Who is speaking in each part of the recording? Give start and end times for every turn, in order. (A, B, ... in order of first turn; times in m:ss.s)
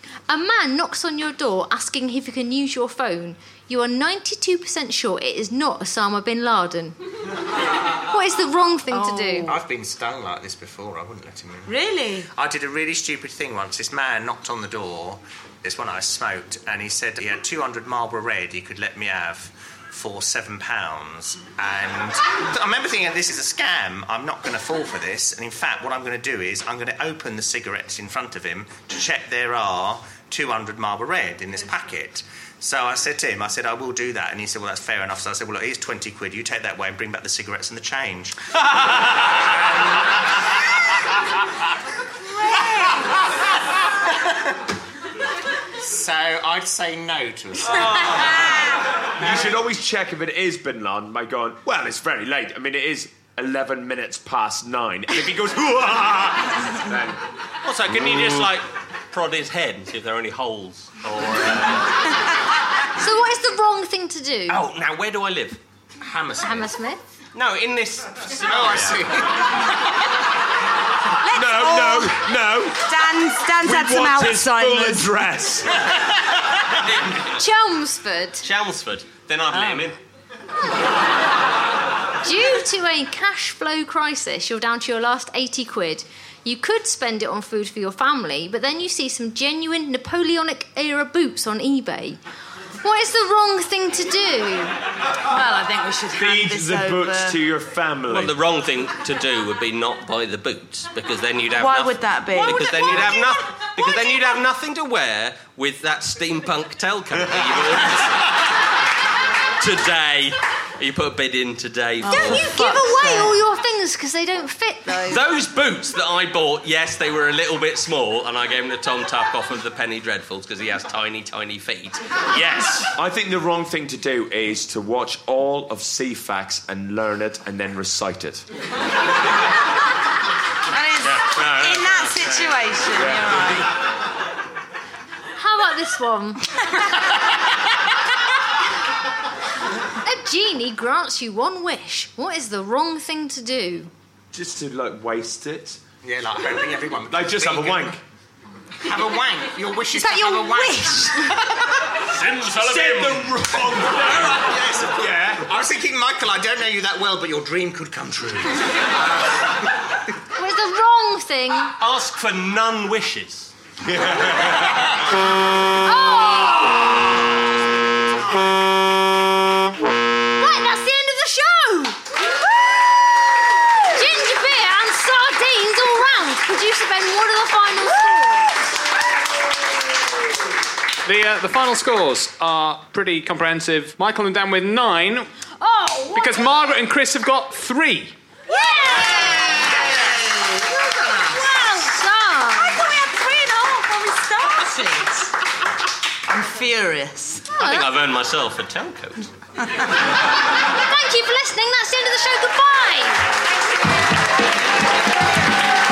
0:00.3-0:07.0 A
0:08.1-0:09.6 A
0:08.9-0:09.6 B
0:09.5-0:11.8 C
0:11.6-0:12.3 B
0:12.3-0:38.4 C
0:45.8-0:48.4 C
0:49.2-0:57.2 D
0:57.6-1:01.9 E
1:03.0-1:04.6 A
1:04.5-1:05.6 E
1:06.0-1:06.7 C
1:06.4-1:07.0 A
1:07.3-1:09.1 E
1:08.4-1:09.5 C
1:11.2-1:12.2 B
1:11.3-1:15.7 D
1:12.8-1:15.1 B
1:16.8-1:17.3 E
1:17.3-1:18.4 A
1:18.4-1:20.0 E
1:19.5-1:19.9 B
1:22.2-1:32.2 A
1:32.8-1:34.8 A
1:35.3-1:37.4 B
1:36.2-1:38.4 D
1:38.1-1:48.3 E
1:41.5-1:43.7 B
1:49.6-1:52.5 E
1:52.0-1:53.4 B
1:52.1-1:55.2 A
1:55.0-2:02.9 E
2:02.8-2:08.4 D
2:10.7-2:13.7 B
2:11.0-2:12.5 E
2:12.9-2:13.6 D
2:15.4-2:16.5 A
2:20.0-2:23.9 A
2:24.3-2:25.8 D
2:26.0-2:28.0 C
2:27.1-2:28.0 D
2:28.8-2:31.4 C
2:29.9-2:31.3 B
2:32.1-2:33.4 E
2:32.4-2:35.4 D
2:34.0-2:38.9 C
2:40.4-2:41.7 A
2:41.8-2:43.5 E
2:45.8-2:46.9 A
2:50.4-2:52.0 A
2:53.9-2:58.7 A
3:01.0-3:05.3 F
3:05.6-3:06.5 A
3:06.1-3:08.1 F
3:08.5-3:09.6 A
3:08.6-3:10.0 B
3:08.9-3:11.4 C
3:11.3-3:11.9 B
3:11.5-3:12.8 A
3:12.5-3:15.3 B
3:16.3-3:17.4 B
3:17.5-3:17.9 A
3:17.6-3:19.3 E
3:20.7-3:23.3 A